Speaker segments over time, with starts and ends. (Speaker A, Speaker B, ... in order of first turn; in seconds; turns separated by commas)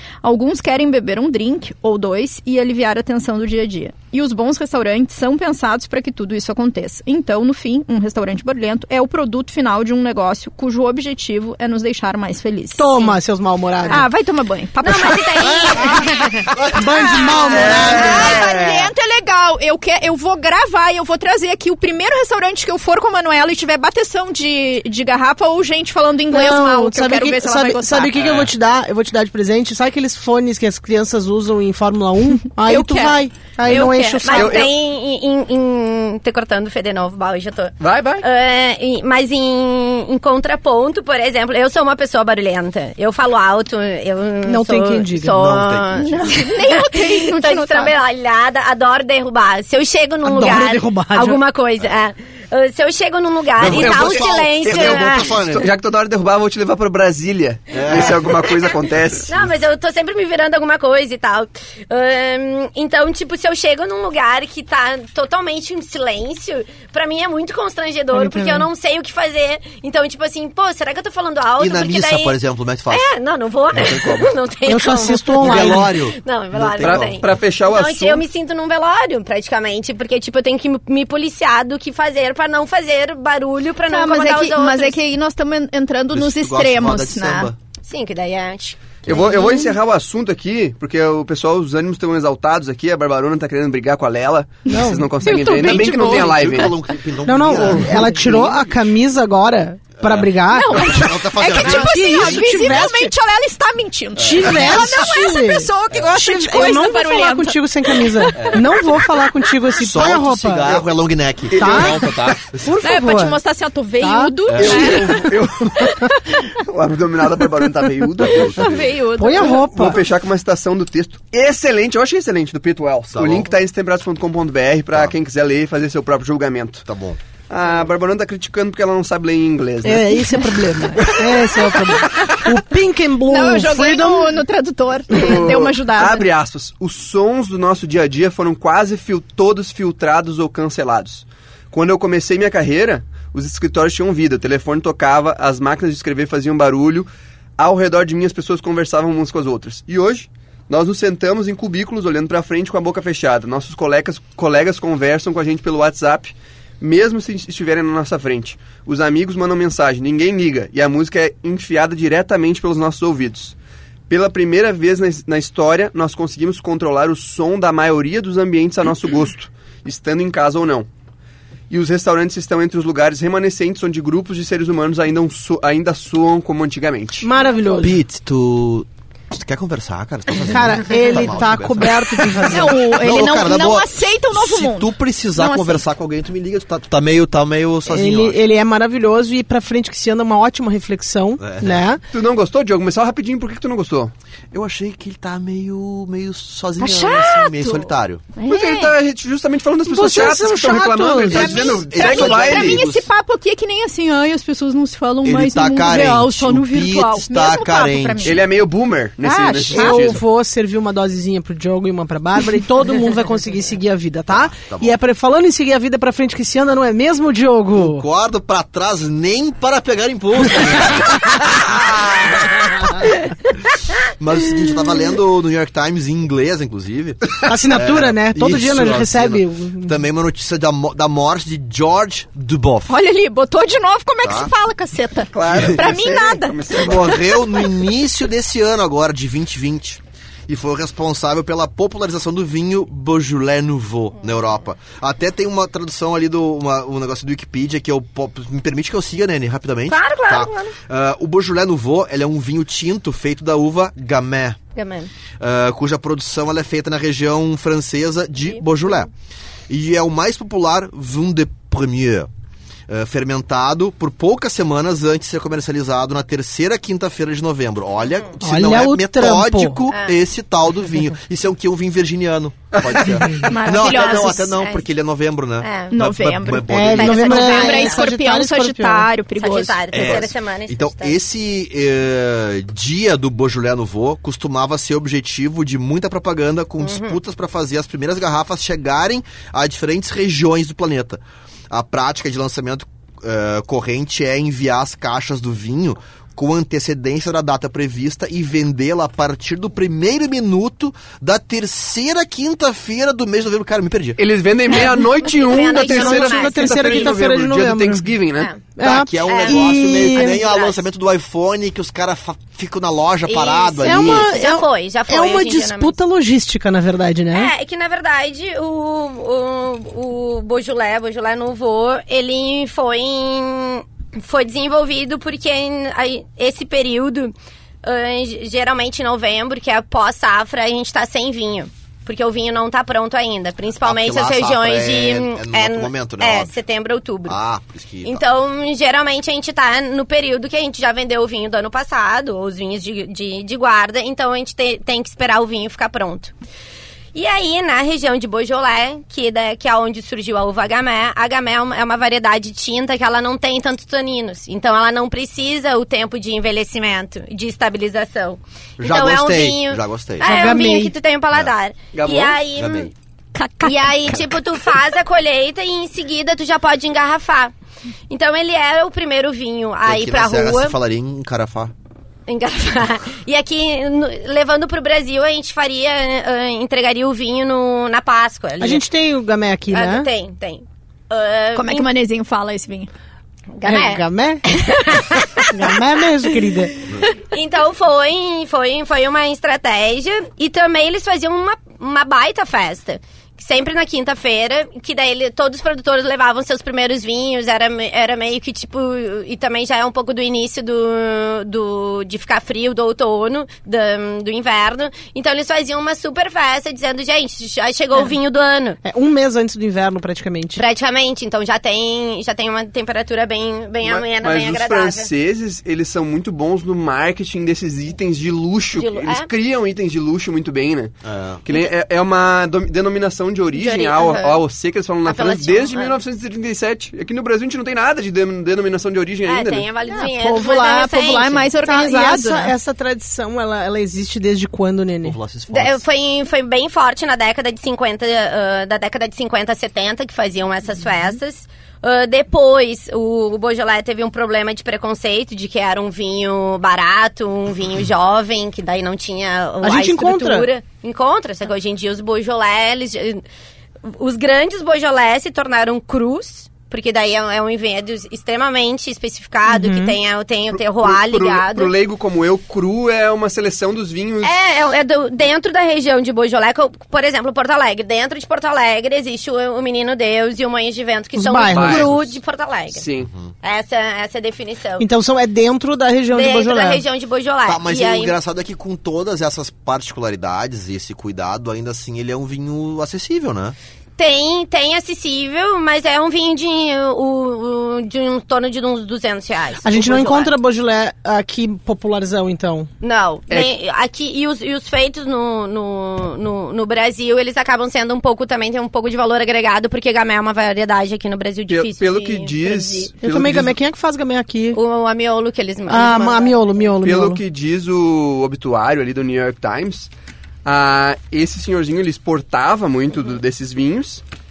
Speaker A: 0.2-12.9, Speaker B: 12.7-14.1, Speaker A: 13.9-15.6, Speaker C: 14.8-16.5, Speaker D: 15.4-18.9, Speaker B: 16.7-18.5, Speaker A: 17.2-28.1, Speaker C: 17.5-18.4, Speaker B: 26.3-34.7, Speaker E: 28.1-28.5, Speaker A: 32.6-33.2, Speaker C: 33.6-55.4, Speaker E: 33.7-34.8, Speaker E: 37.8-38.2, Speaker B: 44.5-45.3, Speaker D: 45.3-46.2, Speaker A: 46.2-47.9, Speaker B: 50.2-51.4, Speaker D: 53.6-55.7, Speaker E: 53.6-59.3, Speaker D: 57.7-58.3, Speaker C: 59.3-72.4, Speaker B: 68.1-68.7, Speaker D: 71.6-73.0, Speaker C: 72.9-85.0, Speaker D: 73.8-74.3, Speaker B: 74.7-75.9, Speaker D: 75.4-77.2, Speaker E: 76.8-78.2, Speaker A: 83.9-87.5, Speaker D: 86.1-87.6, Speaker C: 87.8-88.9, Speaker D: 89.1-89.3, Speaker E: 89.1-96.8, Speaker B: 94.7-96.7, Speaker D: 95.6-98.7, Speaker B: 97.2-103.1, Speaker D: 100.0-102.8, Speaker A: 100.5-108.8, Speaker D: 104.2-105.0, Speaker B: 104.2-110.8, Speaker D: 108.4-108.6, Speaker D: 109.7-112.7, Speaker B: 111.5-113.4, Speaker E: 111.6-112.4, Speaker A: 112.8-116.5, Speaker B: 114.0-115.2, Speaker D: 114.5-115.1, Speaker E: 114.5-118.7, Speaker D: 118.2-118.8, Speaker A: 118.5-119.6, Speaker B: 119.2-120.0, Speaker E: 119.3-126.9, Speaker D: 123.1-123.5, Speaker D: 126.9-127.2, Speaker E: 127.5-130.3, Speaker B: 129.8-134.3, Speaker E: 131.0-131.5, Speaker A: 131.9-132.4, Speaker A: 133.3-136.3, Speaker E: 135.1-163.6, Speaker E: 164.1-170.9, Speaker E: 171.7-177.3, Speaker B: 177.2-178.0, Speaker D: 177.8-188.4, Speaker B: 180.4-182.8, Speaker A: 182.5-185.8, Speaker B: 187.9-192.0, Speaker D: 191.4-191.9, Speaker E: 192.1-194.1, Speaker D: 194.5-198.3, Speaker A: 196.8-198.9, Speaker E: 198.4-202.9, Speaker B: 199.8-201.8, Speaker A: 201.3-208.4, Speaker D: 201.4-203.1, Speaker D: 205.2-208.5, Speaker E: 208.2-210.2, Speaker B: 209.2-218.0, Speaker D: 214.3-214.9, Speaker D: 217.8-223.1, Speaker D: 224.2-233.0, Speaker B: 227.5-229.9, Speaker A: 232.9-237.1, Speaker D: 234.2-234.5, Speaker E: 235.3-237.2, Speaker D: 235.5-235.8, Speaker D: 236.8-254.6, Speaker C: 249.9-250.8, Speaker C: 254.8-255.1, Speaker D: 255.4-259.1, Speaker D: 259.7-262.3, Speaker D: 262.9-277.7, Speaker B: 268.4-269.8, Speaker C: 269.9-270.2, Speaker E: 272.7-273.3, Speaker A: 273.4-274.5, Speaker C: 273.7-274.9, Speaker C: 275.6-275.9, Speaker A: 275.9-280.3, Speaker B: 276.7-279.1, Speaker C: 276.9-278.1, Speaker C: 279.4-281.2, Speaker D: 279.9-304.2, Speaker C: 286.8-287.2, Speaker E: 304.2-308.5, Speaker C: 305.3-307.2, Speaker B: 305.7-308.0, Speaker C: 308.4-308.6, Speaker B: 308.8-310.4, Speaker D: 308.8-314.3, Speaker C: 309.2-310.8, Speaker C: 313.3-316.0, Speaker B: 313.8-317.5, Speaker C: 317.3-337.4, Speaker D: 333.8-336.5, Speaker D: 337.3-338.2, Speaker C: 338.0-346.3, Speaker C: 347.1-362.9, Speaker D: 358.8-360.5, Speaker B: 360.2-360.9, Speaker E: 361.9-362.4, Speaker D: 362.6-362.9, Speaker A: 363.3-364.4, Speaker C: 363.6-367.5, Speaker C: 368.1-370.8, Speaker D: 369.9-371.7, Speaker C: 372.3-378.8, Speaker B: 378.6-380.1, Speaker C: 379.7-381.9, Speaker A: 381.6-382.9, Speaker C: 383.5-408.8, Speaker B: 383.6-384.4, Speaker B: 385.5-386.7, Speaker B: 408.9-410.6, Speaker C: 410.6-415.1, Speaker E: 413.8-420.9, Speaker C: 418.7-419.3, Speaker D: 421.0-421.4, Speaker E: 421.4-429.7, Speaker C: 423.6-424.4, Speaker C: 425.1-426.0, Speaker C: 429.3-431.5, Speaker B: 429.9-430.3, Speaker A: 430.2-432.5, Speaker B: 431.6-435.2, Speaker D: 435.0-435.8, Speaker C: 435.5-453.2, Speaker B: 449.6-450.5, Speaker C: 453.8-461.7, Speaker B: 459.5-459.9, Speaker E: 460.5-464.4, Speaker C: 464.2-472.9, Speaker B: 471.2-471.9, Speaker E: 471.5-472.0, Speaker E: 472.8-473.1, Speaker C: 473.4-474.9, Speaker B: 474.8-476.8, Speaker C: 476.1-478.1, Speaker D: 477.5-483.6, Speaker C: 484.0-490.3, Speaker B: 489.6-492.7, Speaker C: 492.8-502.9, Speaker E: 501.5-503.6, Speaker B: 503.0-504.6, Speaker C: 504.5-506.4, Speaker B: 505.7-507.2, Speaker E: 506.8-509.9, Speaker E: 510.4-514.0